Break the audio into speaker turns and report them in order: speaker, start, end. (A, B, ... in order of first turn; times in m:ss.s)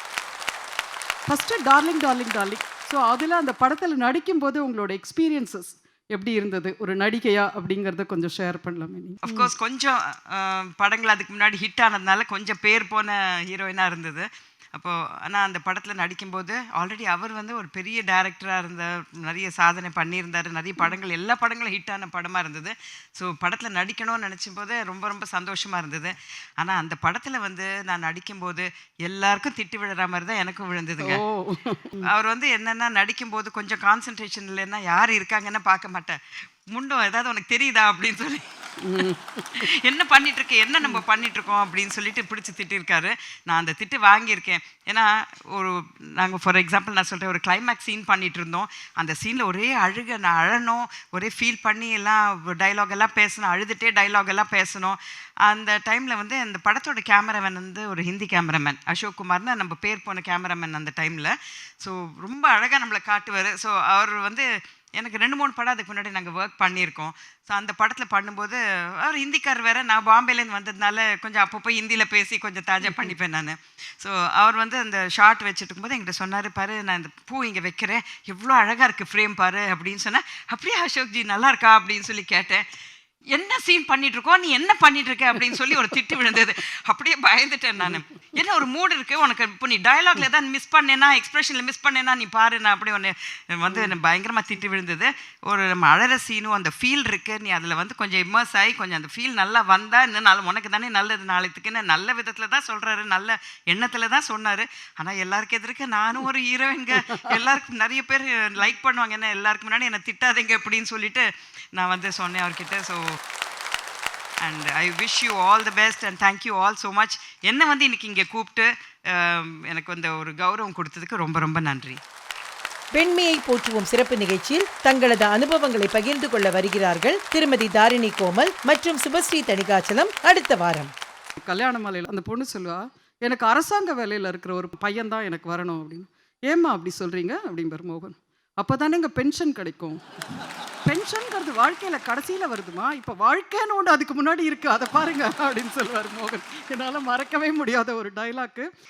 0:01.3-0:09.5 A
0:09.2-0:31.2 B
0:31.1-0:32.0 A
0:32.0-0:36.2 B
0:36.7-0:38.4 B
0:39.6-1:04.4 B
1:05.0-1:22.6 B
1:23.3-1:53.2 B
1:54.4-2:02.0 B
2:03.0-2:10.9 C
2:11.4-2:12.7 A
2:13.2-2:18.1 A
2:18.6-2:20.0 A
2:20.9-2:28.6 A